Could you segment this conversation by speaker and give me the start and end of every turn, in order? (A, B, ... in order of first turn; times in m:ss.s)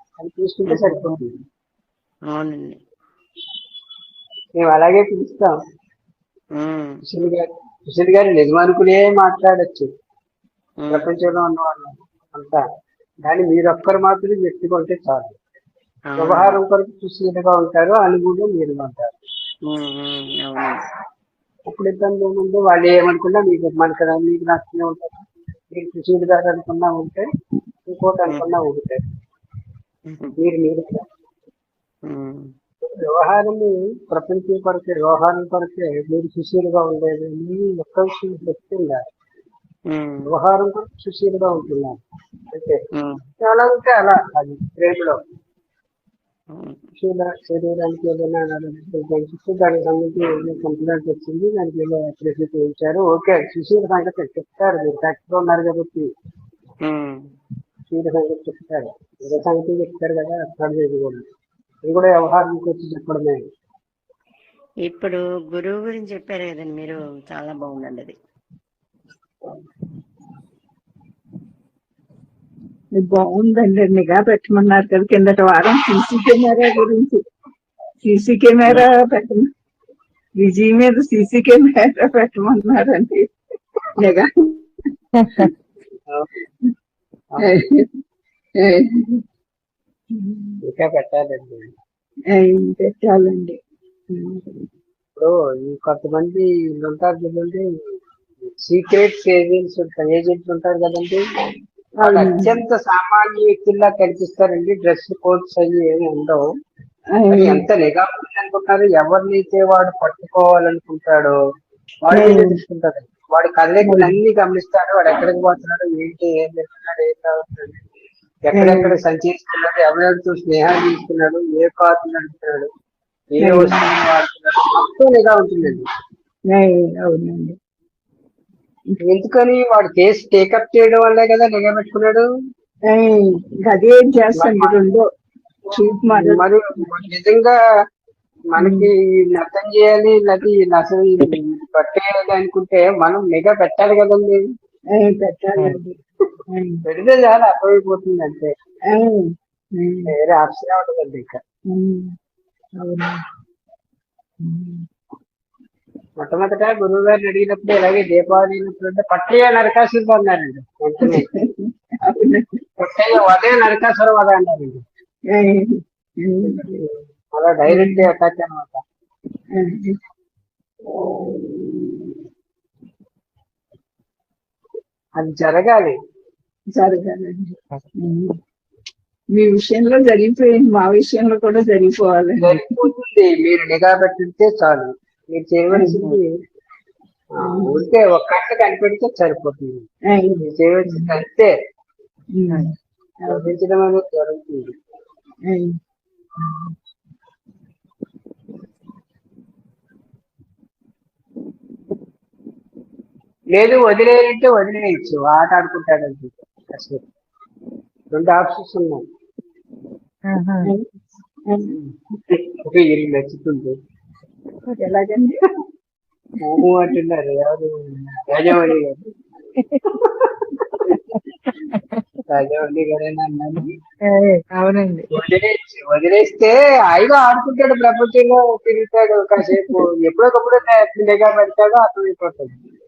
0:00.2-0:01.3 A
0:00.7-0:01.2 B
0:02.3-0:02.8 B
0:04.6-0:05.5 A
0:06.6-0:06.9 B
0:07.1-0:09.9 A
0:10.9-0:12.6 A
0:13.2-0:15.4 A
0:16.1-0:16.6 B
0:16.2-0:19.1 A
0:19.7-0:20.8 B
0:21.7-0:27.2 A
0:27.9-0:29.0 A
0:30.4-0:31.0 A
0:32.1-0:32.5 B
0:32.8-0:39.0 A
0:39.9-0:40.3 B
0:40.3-0:42.0 A
0:42.5-0:42.8 A
0:43.0-0:43.2 B
0:43.4-0:45.2 A
0:47.0-0:56.1 A
0:56.8-0:57.2 B
0:57.9-1:01.2 A
1:01.8-1:03.4 A
1:04.9-1:08.2 B
1:13.0-1:17.2 C
1:18.0-1:19.5 C
1:20.4-1:23.3 C
1:24.0-1:24.7 C
1:27.4-1:27.9 C
1:28.6-1:29.2 C
1:30.1-1:30.6 C
1:30.7-1:31.7 A
1:32.3-1:33.6 C
1:34.1-1:34.6 C
1:35.2-1:37.6 A
1:38.6-1:41.2 A
1:42.0-1:42.5 C
1:42.0-1:46.4 A
1:47.2-1:47.6 C
1:47.3-1:51.4 A
1:52.0-1:57.8 A
1:52.1-1:52.6 C
1:53.8-1:54.1 C
1:58.5-2:02.7 A
1:58.6-1:58.9 C
2:03.3-2:05.9 A
2:03.4-2:03.9 C
2:06.5-2:07.6 C
2:09.0-2:12.2 A
2:12.9-2:15.0 C
2:14.4-2:14.8 A
2:15.7-2:17.6 A
2:15.7-2:16.4 C
2:18.5-2:24.4 A
2:18.6-2:18.9 C
2:25.0-2:25.9 C
2:26.5-2:26.8 C
2:26.9-2:28.5 A
2:28.9-2:30.1 C
2:30.1-2:31.4 A
2:31.7-2:32.1 C
2:32.8-2:33.2 C
2:34.4-2:34.8 C
2:36.2-2:41.3 A
2:41.0-2:42.6 C
2:42.8-2:44.8 A
2:45.3-2:45.7 C
2:46.2-2:46.8 C
2:46.4-2:48.8 A
2:47.7-2:48.1 C
2:49.6-2:50.0 C
2:51.0-2:52.1 C
2:55.2-2:55.9 A
2:56.8-2:58.3 C
2:59.3-3:02.6 C
3:02.4-3:06.3 A
3:05.7-3:06.0 C
3:07.4-3:09.8 A
3:07.4-3:07.8 C
3:10.1-3:11.1 C
3:10.4-3:11.5 A
3:12.4-3:12.7 C
3:13.3-3:14.7 A
3:16.4-3:16.7 C
3:23.5-3:27.0 A
3:28.1-3:29.0 A
3:30.3-3:30.7 D
3:31.5-3:31.8 C
3:32.6-3:33.7 A
3:34.8-3:35.5 C
3:36.4-3:39.0 A
3:39.6-3:39.9 D
3:40.0-3:40.3 A
3:40.9-3:42.0 D
3:42.3-3:43.7 A
3:44.1-3:45.1 D
3:45.1-3:52.6 A